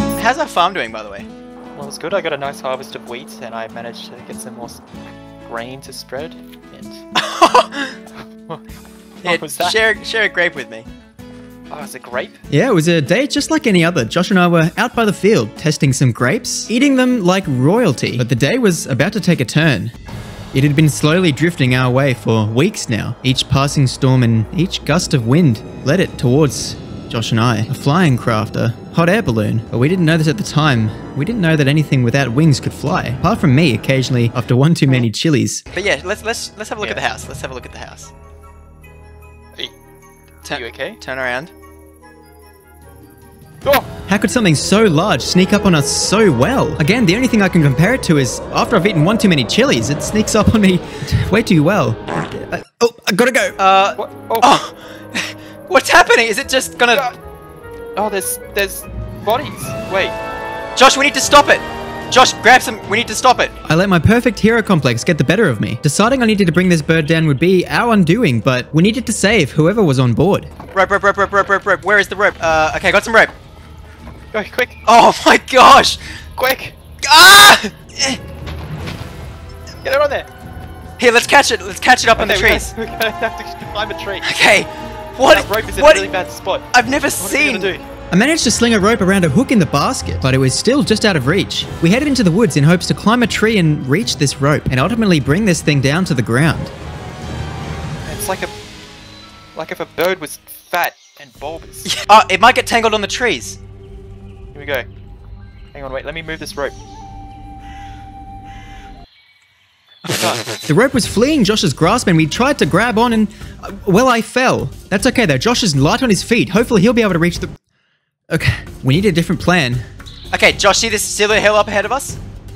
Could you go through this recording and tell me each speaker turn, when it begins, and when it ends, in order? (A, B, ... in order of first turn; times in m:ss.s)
0:00.2-0:01.3 A
0:01.7-0:04.8 B
0:05.4-0:07.0 B
0:07.2-0:08.0 A
0:08.2-0:08.6 B
0:09.2-0:09.8 B
0:09.2-0:10.9 A
0:11.7-0:12.4 B
0:12.5-0:19.9 C
0:20.5-0:35.7 C
0:35.7-0:38.1 A
0:36.8-0:37.0 B
0:40.4-0:41.0 B
0:41.0-0:41.5 C
0:44.1-0:53.6 C
0:53.6-0:55.2 A
0:54.0-0:54.5 B
0:55.7-0:57.1 A
0:56.9-0:57.2 B
0:58.0-1:00.2 B
1:00.8-1:03.6 A
1:03.6-1:10.5 C
1:10.7-1:13.3 A
1:14.3-1:14.8 B
1:14.8-1:16.0 A
1:16.4-1:16.8 B
1:17.0-1:18.2 A
1:19.8-1:20.3 B
1:21.0-1:22.7 A
1:22.1-1:24.3 B
1:24.2-1:26.1 A
1:25.2-1:27.8 B
1:26.7-1:27.7 A
1:28.1-1:36.7 C
1:38.0-1:38.5 B
1:39.5-1:42.0 B
1:41.8-1:43.6 A
1:44.5-1:44.9 B
1:45.7-1:46.8 B
1:50.0-1:50.5 B
1:50.5-1:57.5 C
1:58.3-1:59.8 C
2:00.3-2:02.2 A